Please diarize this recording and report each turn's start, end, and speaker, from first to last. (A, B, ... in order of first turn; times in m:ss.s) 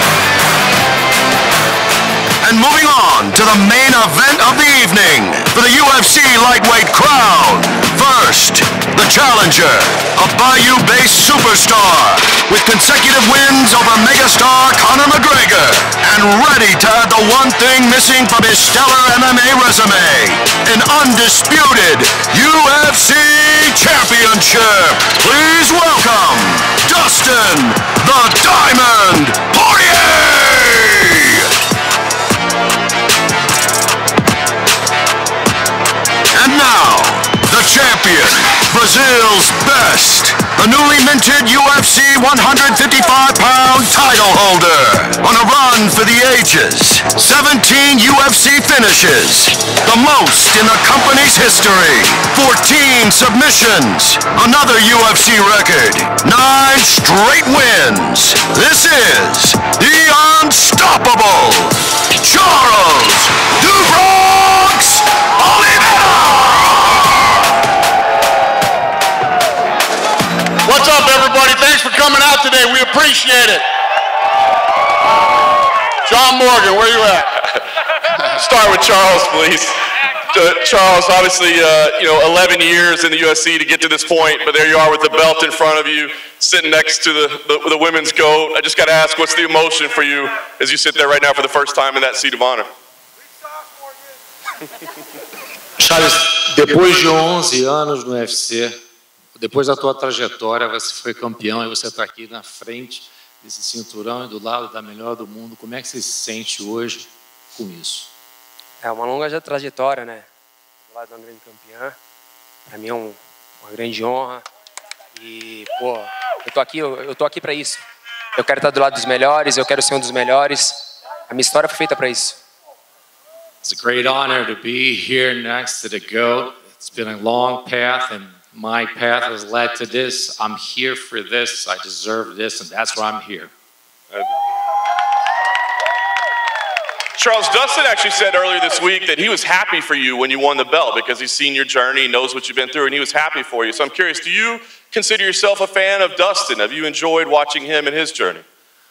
0:02.4-0:31.5 A
0:36.3-1:07.3 A
1:10.7-1:13.6 B
1:16.1-1:17.3 B
1:18.4-1:19.8 C
1:20.3-1:32.7 C
1:35.8-1:38.8 D
1:39.4-1:48.1 D
1:48.8-1:50.3 E
1:50.9-1:52.0 E
1:52.7-1:54.4 E
1:55.2-1:57.8 E
1:58.4-2:02.4 E
2:03.6-2:13.5 D
2:17.2-2:28.5 C